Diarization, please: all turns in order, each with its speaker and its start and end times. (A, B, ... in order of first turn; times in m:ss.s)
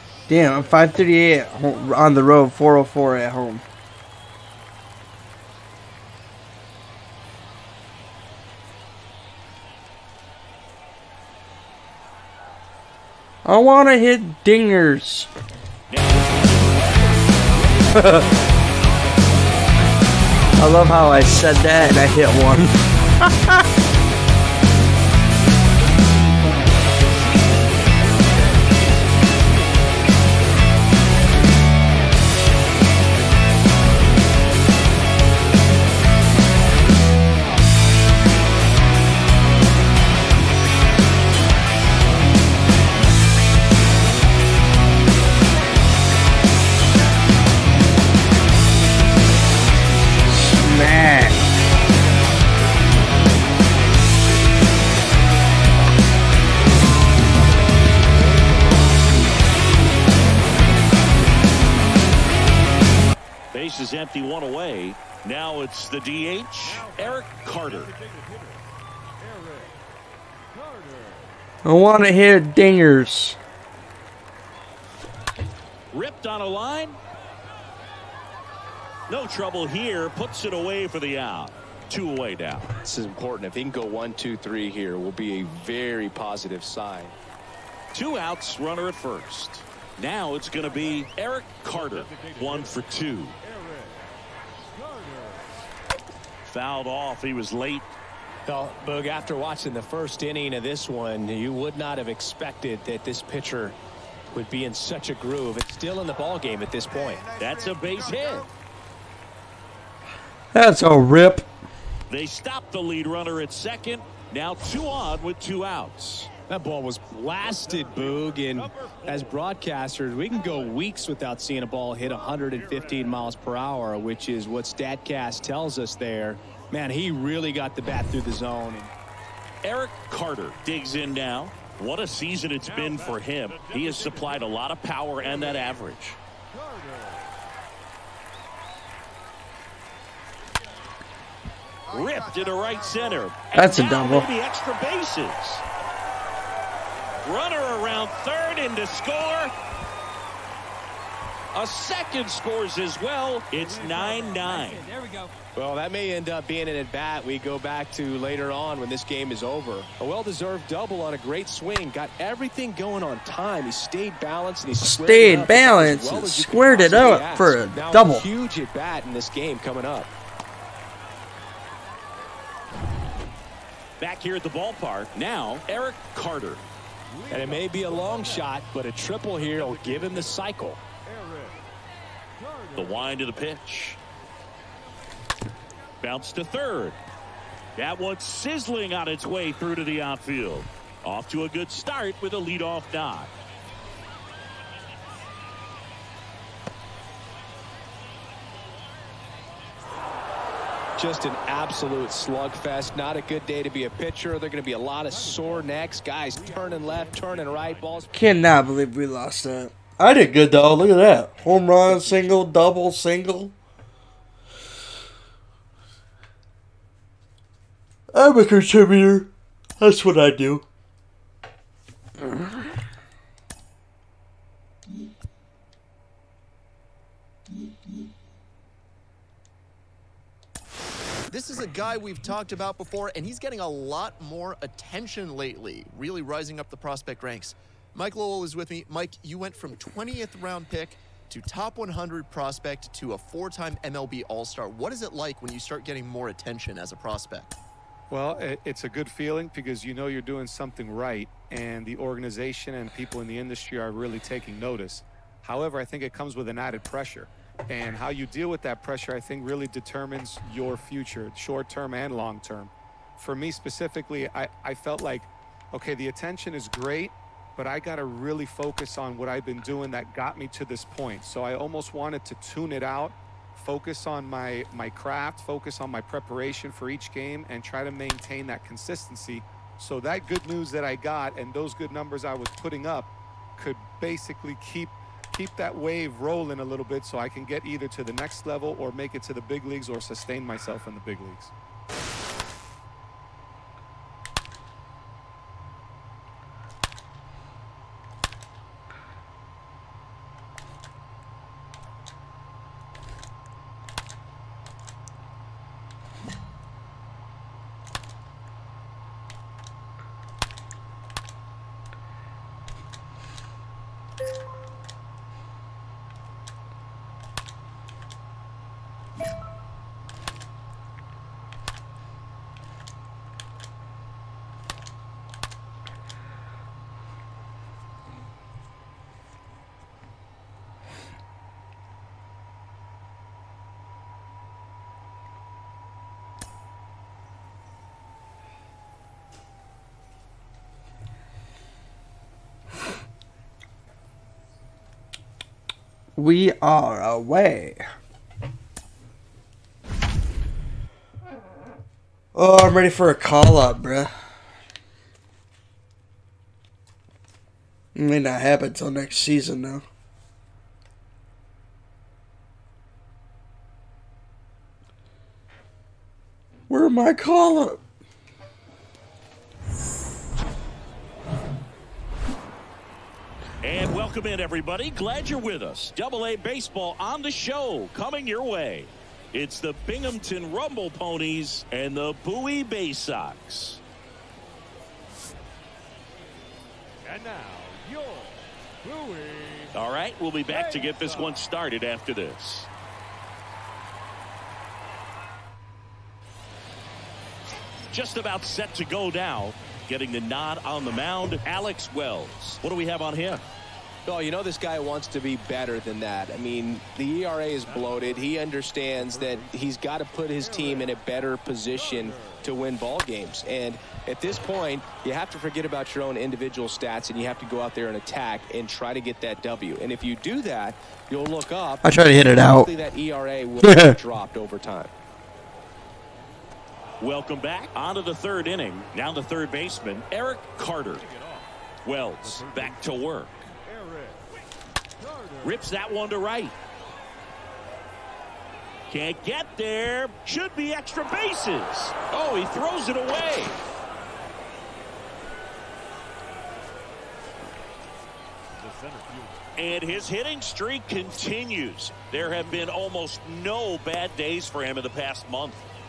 0:00.3-0:03.6 A
0:00.3-0:00.8 B
0:13.4-0:15.3 A
0:15.9-0:18.7 C
0:17.9-0:18.2 A
0:20.6-0:23.6 A
0:25.6-0:29.3 C
0:48.4-1:01.7 D
0:50.3-0:51.4 A
1:03.5-1:07.9 C
1:06.6-1:09.8 B
1:10.5-1:11.4 B
1:11.6-1:13.4 A
1:15.9-1:17.0 C
1:19.1-1:22.7 C
1:22.8-1:27.2 D
1:27.9-1:33.3 C
1:31.7-1:34.1 B
1:34.7-1:35.7 B
1:36.4-1:37.9 C
1:38.4-1:43.8 D
1:44.3-1:47.2 D
1:46.9-1:48.5 E
1:47.4-1:48.5 C
1:50.5-1:51.5 A
1:52.1-1:56.3 C
1:56.5-2:08.9 D
1:57.4-1:59.6 B
2:00.3-2:00.8 B
2:02.4-2:03.4 B
2:09.6-2:16.2 C
2:12.6-2:14.5 B
2:15.2-2:15.8 B
2:16.5-2:17.4 B
2:21.9-2:23.3 E
2:21.9-2:25.6 C
2:23.5-2:24.3 A
2:27.2-2:29.5 C
2:31.5-2:34.8 C
2:33.5-2:35.3 E
2:35.5-2:50.1 D
2:44.8-2:48.2 A
2:54.0-2:56.6 C
2:57.1-2:58.5 B
2:57.3-3:00.8 D
2:59.3-3:00.4 B
3:01.0-3:01.6 B
3:02.4-3:03.3 B
3:02.8-3:04.0 C
3:06.0-3:07.0 C
3:07.7-3:13.3 C
3:21.0-3:28.1 D
3:25.1-3:28.6 B
3:28.1-3:33.5 A
3:38.1-3:40.6 A
3:51.3-4:07.5 F
4:08.1-4:51.5 G
5:46.2-5:47.8 A
5:52.3-5:54.1 A
5:57.9-5:59.8 A
6:06.7-6:07.8 A
6:13.6-6:23.8 C
6:27.0-6:29.7 B
6:29.7-6:32.7 C
6:30.5-6:31.4 B
6:37.9-6:43.4 C
6:44.0-7:04.9 D
6:47.6-6:49.7 B
6:50.3-6:51.0 B
6:51.7-6:52.5 B
7:01.8-7:02.7 A
7:03.6-7:04.0 A
7:07.0-7:11.0 C
7:10.9-7:11.5 B
7:11.8-7:13.4 C
7:12.2-7:12.9 B
7:13.6-7:14.3 B
7:15.0-7:15.7 B
7:15.4-7:16.5 C
7:18.9-7:23.6 C
7:28.5-7:29.5 B
7:29.6-7:35.6 C
7:32.1-7:32.7 B